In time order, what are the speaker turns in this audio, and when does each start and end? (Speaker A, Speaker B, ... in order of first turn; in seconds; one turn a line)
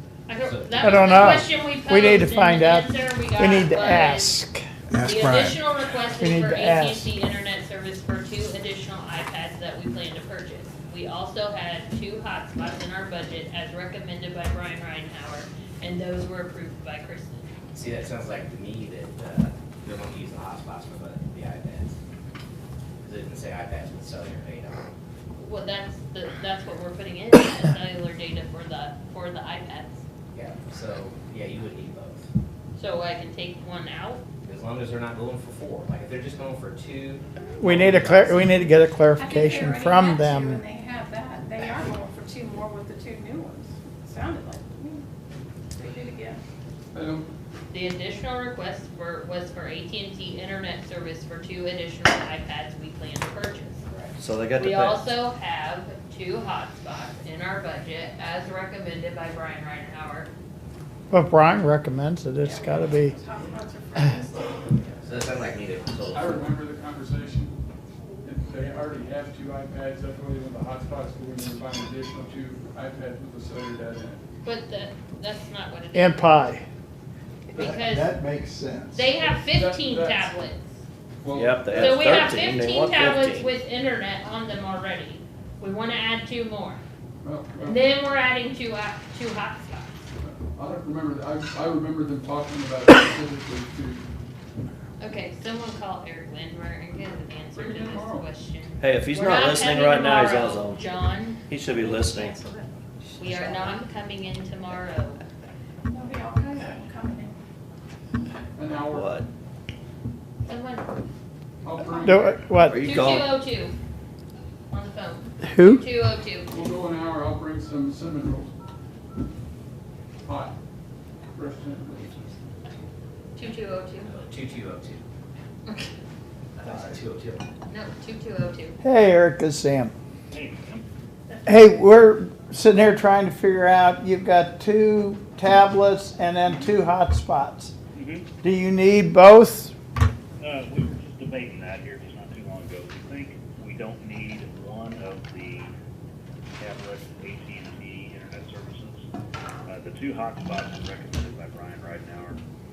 Speaker A: 0.3-4.4
Speaker B: 0.4-1.5
Speaker C: 0.8-5.6
Speaker A: 4.9-17.5
Speaker C: 6.2-7.1
Speaker B: 17.7-21.9
Speaker B: 23.0-24.9
Speaker A: 25.4-30.0
Speaker B: 30.3-32.3
Speaker A: 32.8-34.2
Speaker B: 34.4-38.7
Speaker C: 37.6-40.6
Speaker D: 39.2-45.0
Speaker D: 45.7-46.4
Speaker E: 46.9-47.3
Speaker A: 47.7-53.8
Speaker F: 54.2-55.1
Speaker A: 54.6-60.3
Speaker C: 61.1-63.2
Speaker D: 62.4-65.3
Speaker B: 65.0-66.5
Speaker E: 66.0-67.5
Speaker E: 68.2-74.2
Speaker A: 74.4-76.4
Speaker C: 75.9-76.6
Speaker A: 77.5-78.1
Speaker C: 77.5-79.1
Speaker A: 78.9-80.7
Speaker E: 79.1-80.4
Speaker E: 81.2-82.1
Speaker F: 81.3-83.5
Speaker A: 81.7-86.8
Speaker E: 87.2-87.8
Speaker A: 87.6-90.0
Speaker E: 90.2-94.0
Speaker A: 95.0-101.4
Speaker E: 97.5-98.3
Speaker F: 98.8-100.9
Speaker F: 101.4-102.4
Speaker D: 101.8-103.8
Speaker A: 103.2-105.2
Speaker D: 105.9-107.3
Speaker E: 108.6-109.1
Speaker F: 108.9-109.3
Speaker A: 110.5-110.9
Speaker E: 111.6-112.3
Speaker C: 112.1-112.9
Speaker F: 112.7-113.3
Speaker A: 112.8-113.8
Speaker A: 114.7-116.5
Speaker C: 115.5-115.8
Speaker E: 116.5-118.5
Speaker E: 120.3-120.5
Speaker E: 121.3-122.3
Speaker A: 123.3-124.1
Speaker B: 124.1-125.1
Speaker A: 125.7-125.9
Speaker B: 126.6-127.5
Speaker A: 127.7-128.8
Speaker C: 128.8-129.9
Speaker G: 130.3-130.8
Speaker C: 131.5-137.7
Speaker G: 137.9-138.3
Speaker C: 138.4-139.7
Speaker G: 140.4-145.7
Speaker G: 146.6-149.0
Speaker G: 149.7-152.4